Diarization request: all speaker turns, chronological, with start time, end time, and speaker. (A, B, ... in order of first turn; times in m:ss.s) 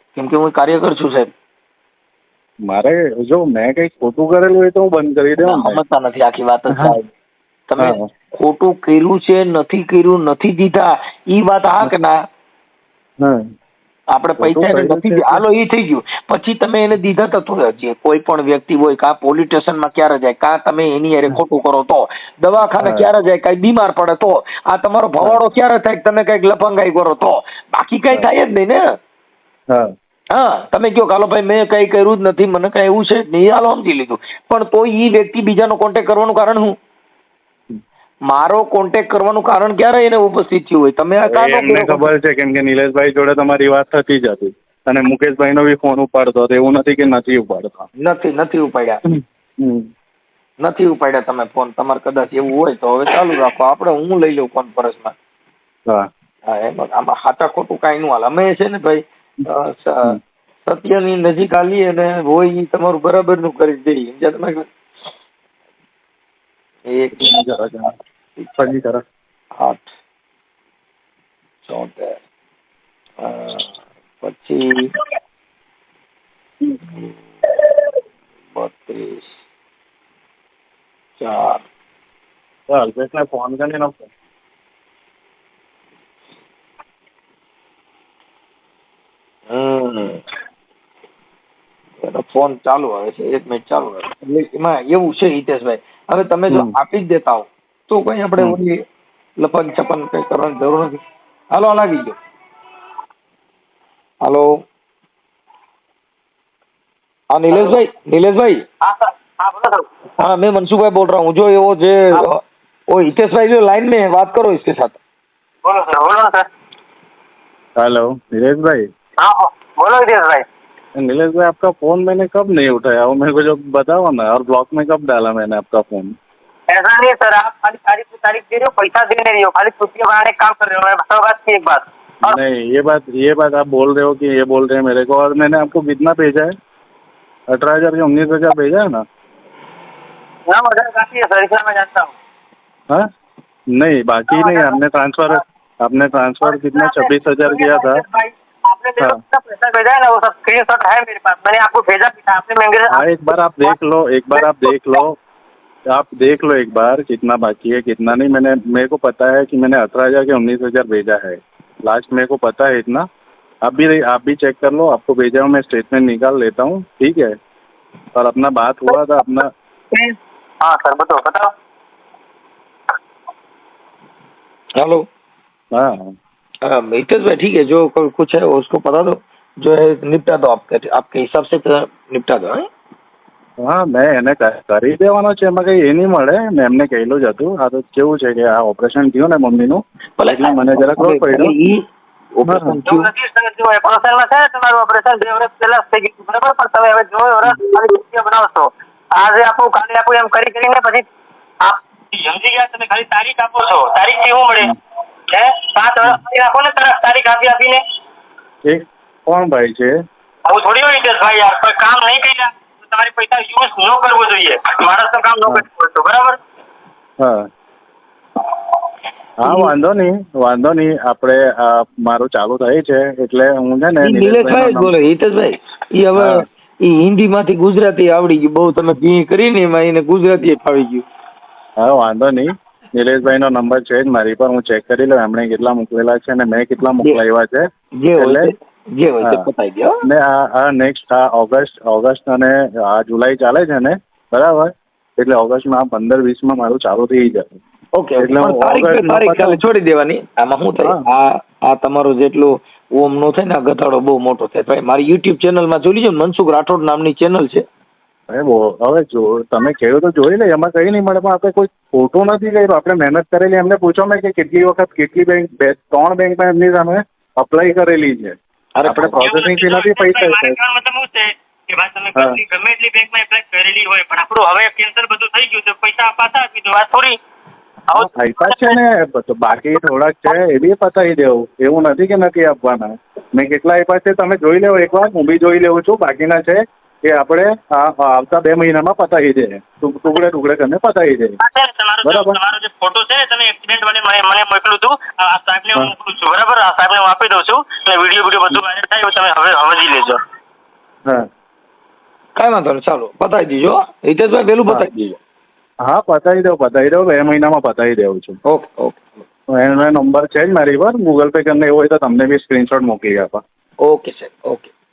0:00.2-0:01.3 A
0:02.6-0:05.8 B
0:05.4-0:07.1 A
0:07.7-0:12.2 A
0:14.1-0:28.8 A
0:14.4-0:15.4 B
0:22.8-0:23.1 B
0:30.3-0:36.7 A
0:38.3-0:42.1 A
0:41.3-0:47.8 B
0:48.0-0:49.0 A
0:49.1-0:49.9 B
0:50.6-0:55.1 A
0:56.5-1:04.6 A
1:06.9-1:07.4 A
1:07.2-1:07.9 B
1:08.6-1:09.0 B
1:09.6-1:09.9 A
1:11.6-1:12.2 A
1:13.2-1:14.9 A
1:16.9-1:17.1 A
1:18.5-1:19.3 A
1:21.2-1:21.6 A
1:22.7-1:24.1 B
1:29.5-1:30.2 A
1:32.0-1:38.8 A
1:39.4-1:41.0 A
1:41.5-1:42.2 A
1:44.2-1:44.5 A
1:47.3-1:48.6 A
1:48.8-1:49.8 C
1:50.2-1:52.4 A
1:52.9-1:55.0 A
1:55.6-1:56.5 C
1:57.8-1:58.8 B
1:59.2-2:00.4 C
2:01.0-2:06.1 B
2:06.7-2:12.4 C
2:12.2-2:16.5 B
2:17.5-2:19.0 B
2:20.5-2:22.1 C
2:23.7-2:28.0 B
2:26.6-2:33.0 C
2:32.9-2:35.2 B
2:35.9-2:43.0 B
2:43.6-2:47.3 B
2:48.1-2:49.5 B
2:49.9-2:51.5 C
2:54.8-2:55.0 A
2:55.7-2:56.1 B
2:56.6-3:02.6 A
3:03.6-3:11.5 B
3:10.2-3:11.8 A
3:12.4-3:13.1 A
3:12.5-3:12.8 B
3:12.9-3:21.0 C
3:21.6-3:24.7 C
3:25.3-3:27.8 C
3:28.7-3:29.9 B
3:30.5-3:36.4 C
3:39.4-3:44.9 B
3:44.0-3:51.0 A
3:46.2-3:46.4 B
3:51.8-3:57.6 B
3:58.0-3:59.9 A
3:58.2-3:58.5 B
4:00.0-4:07.4 B
4:08.0-4:17.6 A
4:08.2-4:09.6 B
4:18.3-4:30.6 B
4:28.8-4:29.2 A
4:29.2-4:37.1 C
4:37.9-4:38.8 C
4:37.9-4:51.4 B
4:51.4-5:00.2 C
4:52.0-4:52.4 B
5:02.4-5:05.2 A
5:05.8-5:08.4 B
5:08.5-5:09.2 A
5:09.6-5:13.4 B
5:13.8-5:14.7 A